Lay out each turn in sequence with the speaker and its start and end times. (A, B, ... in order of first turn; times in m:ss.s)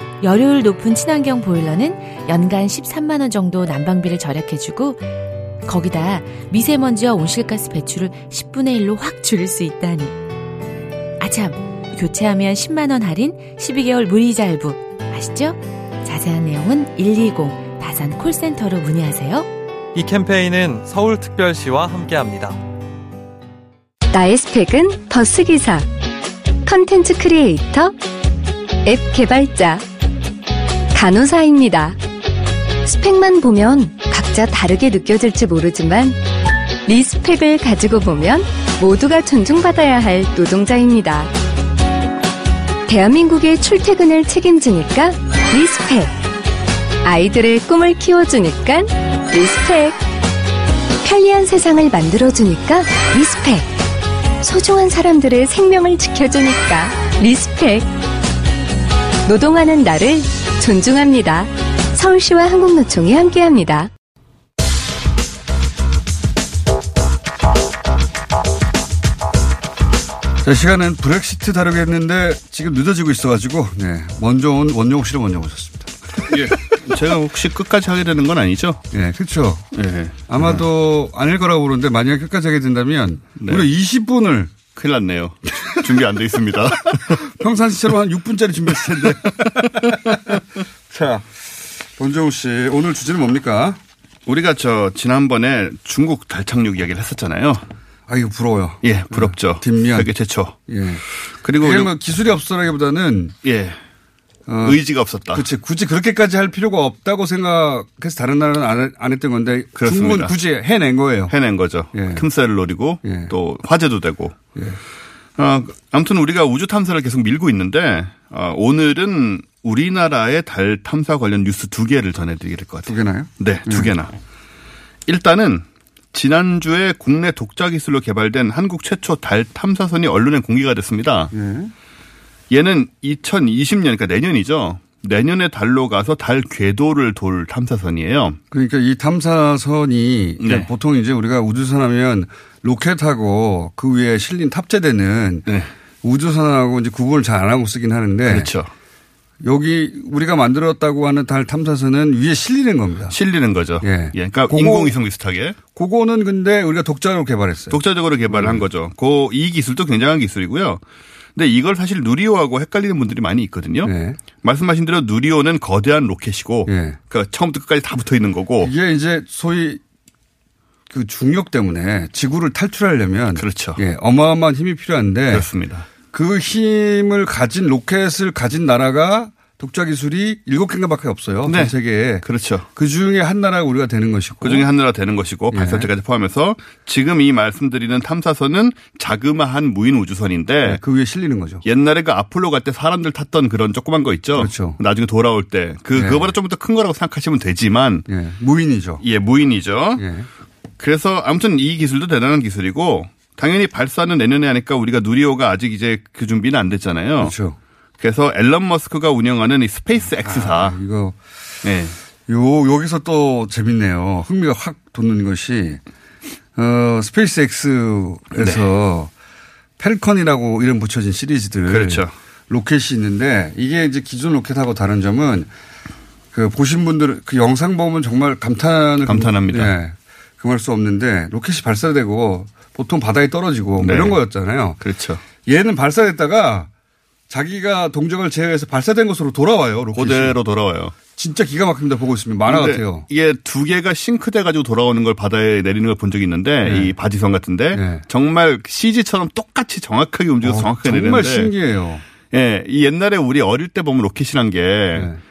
0:00.2-0:05.1 A
0:05.6-0:10.2 A
0:11.2-0:19.5 A
0:20.0-0:22.6 B
0:24.1-0:25.9 C
0:26.6-0:27.9 C
0:28.8-0:29.8 C
0:30.9-0:32.0 C
0:32.8-0:36.2 C
0:36.9-0:41.3 C
0:42.9-0:46.2 C
0:47.0-0:50.0 C
0:51.0-0:53.8 C
0:54.4-0:57.9 C
0:59.2-1:03.9 C
1:10.4-1:16.5 D
1:16.3-1:18.8 E
1:18.9-1:19.7 D
1:19.7-1:20.4 E
1:20.3-1:24.6 D
1:23.4-1:23.6 E
1:24.7-1:27.2 E
1:25.6-1:26.2 D
1:26.9-1:33.8 D
1:34.3-1:37.6 E
1:38.1-1:40.1 D
1:38.8-1:40.6 E
1:40.7-1:41.0 D
1:41.4-1:41.9 E
1:41.5-1:43.4 D
1:43.4-1:43.8 E
1:44.5-1:51.4 D
1:44.6-1:45.5 E
1:49.8-1:50.3 E
1:51.3-1:54.4 E
1:51.9-1:52.3 D
1:53.0-1:53.3 D
1:55.4-2:04.1 E
2:02.9-2:03.9 D
2:05.1-2:11.3 E
2:11.3-2:11.7 D
2:12.5-2:18.4 E
2:18.5-2:25.5 D
2:20.4-2:20.7 E
2:26.0-2:28.5 D
2:28.3-2:28.7 E
2:29.4-2:33.2 D
2:33.1-2:35.6 E
2:33.8-2:35.0 D
2:35.7-2:38.6 D
2:37.7-2:40.8 E
2:41.4-2:48.7 E
2:43.8-2:44.2 D
2:46.7-2:47.0 D
2:48.6-2:49.8 D
2:50.9-2:55.5 D
2:53.4-2:53.8 E
2:55.3-2:55.9 E
2:56.1-3:04.7 D
3:01.4-3:02.7 E
3:04.4-3:10.8 E
3:05.5-3:05.9 D
3:10.6-3:11.6 D
3:11.6-3:18.1 E
3:14.4-3:14.8 D
3:15.9-3:16.4 D
3:18.1-3:19.0 D
3:19.0-3:20.0 E
3:20.0-3:20.3 D
3:20.8-3:27.3 E
3:27.2-3:27.6 D
3:28.0-3:30.8 E
3:30.2-3:31.2 D
3:31.6-3:32.0 E
3:32.3-3:35.8 D
3:36.6-3:39.1 D
3:39.8-3:45.5 D
3:41.7-3:42.1 E
3:46.3-3:54.8 D
3:49.1-3:49.7 E
3:53.8-3:54.2 E
3:54.8-3:55.2 E
3:55.4-3:56.7 D
3:57.3-4:00.4 D
4:00.0-4:01.0 E
4:01.1-4:03.1 D
4:02.5-4:11.5 E
4:06.6-4:06.9 D
4:07.7-4:08.1 D
4:10.4-4:12.0 D
4:12.3-4:15.1 E
4:14.9-4:15.2 D